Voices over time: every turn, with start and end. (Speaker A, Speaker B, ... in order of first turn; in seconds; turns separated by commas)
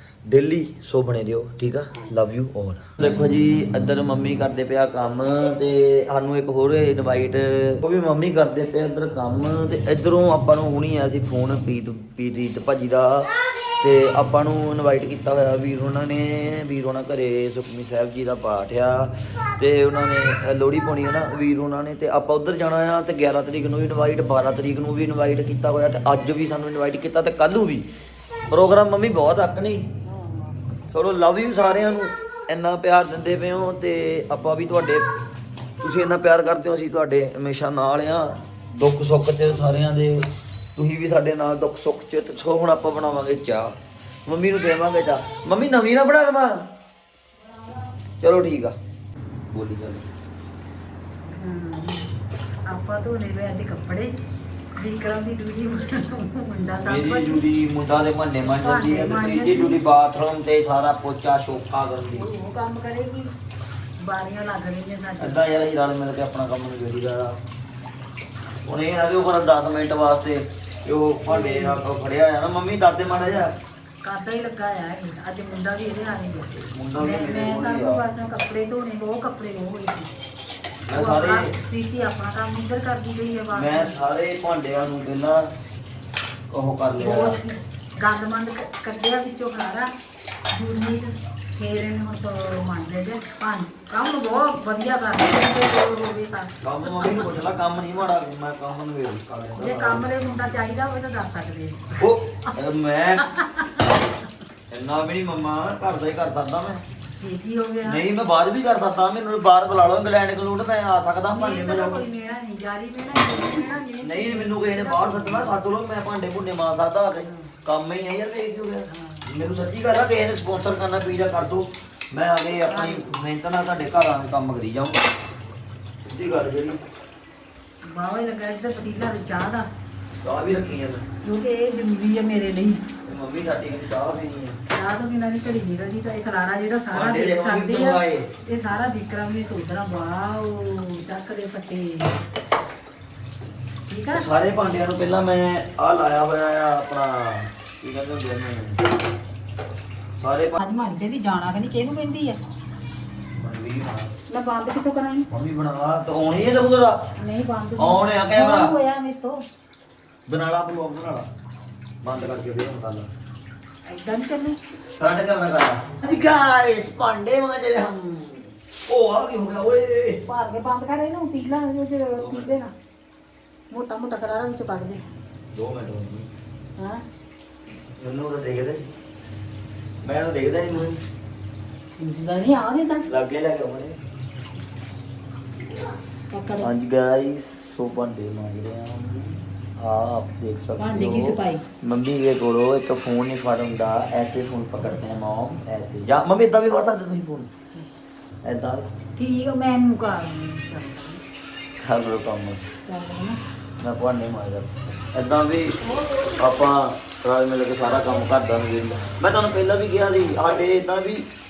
Speaker A: 0.3-27.9, Speaker A: 28.5-29.8, Speaker B: 30.0-30.6, Speaker A: 30.9-35.1, Speaker A: 35.8-46.7, Speaker A: 48.2-48.7, Speaker A: 49.5-50.0, Speaker B: 51.3-52.1, Speaker B: 52.7-54.1, Speaker B: 54.8-57.5, Speaker A: 56.8-62.3, Speaker B: 58.4-59.8, Speaker B: 62.1-63.3, Speaker B: 64.0-65.4, Speaker A: 65.2-67.4, Speaker A: 68.7-73.5, Speaker B: 71.3-71.8, Speaker B: 74.0-80.1, Speaker A: 76.5-78.0, Speaker A: 80.8-81.5, Speaker B: 80.9-83.9, Speaker A: 83.5-85.5, Speaker A: 86.5-87.4, Speaker B: 87.0-89.9, Speaker B: 90.5-97.3, Speaker A: 96.6-100.1, Speaker B: 99.5-102.0, Speaker A: 102.0-103.3, Speaker B: 103.2-103.9, Speaker A: 104.7-106.8, Speaker B: 107.2-108.0, Speaker A: 107.8-112.0, Speaker B: 111.3-115.6, Speaker A: 113.2-125.0, Speaker B: 118.9-119.2, Speaker B: 122.7-123.1, Speaker A: 126.0-126.8, Speaker B: 127.9-129.7, Speaker A: 130.2-131.0, Speaker B: 131.2-132.8, Speaker A: 133.0-134.6, Speaker B: 134.7-142.2, Speaker A: 136.9-138.3, Speaker B: 143.9-144.3, Speaker A: 144.1-148.9, Speaker A: 150.2-150.6, Speaker B: 150.6-152.4, Speaker A: 153.3-154.1, Speaker B: 154.3-155.3, Speaker A: 155.3-157.1, Speaker B: 157.2-159.4, Speaker A: 157.8-158.8, Speaker A: 160.3-161.3, Speaker A: 162.0-163.1, Speaker B: 163.9-164.6, Speaker A: 165.0-170.2, Speaker B: 170.2-172.7, Speaker A: 172.1-172.6, Speaker B: 173.7-175.0, Speaker A: 175.5-176.3, Speaker A: 178.0-178.8, Speaker A: 180.0-181.0, Speaker B: 182.0-183.1, Speaker A: 183.1-184.0, Speaker B: 186.3-186.7, Speaker A: 186.6-197.5, Speaker B: 190.8-191.7, Speaker A: 198.4-198.9, Speaker B: 199.2-201.2, Speaker A: 201.8-202.7, Speaker B: 202.9-203.4, Speaker A: 203.8-205.8, Speaker B: 205.8-206.8, Speaker A: 206.3-211.3, Speaker B: 207.8-208.4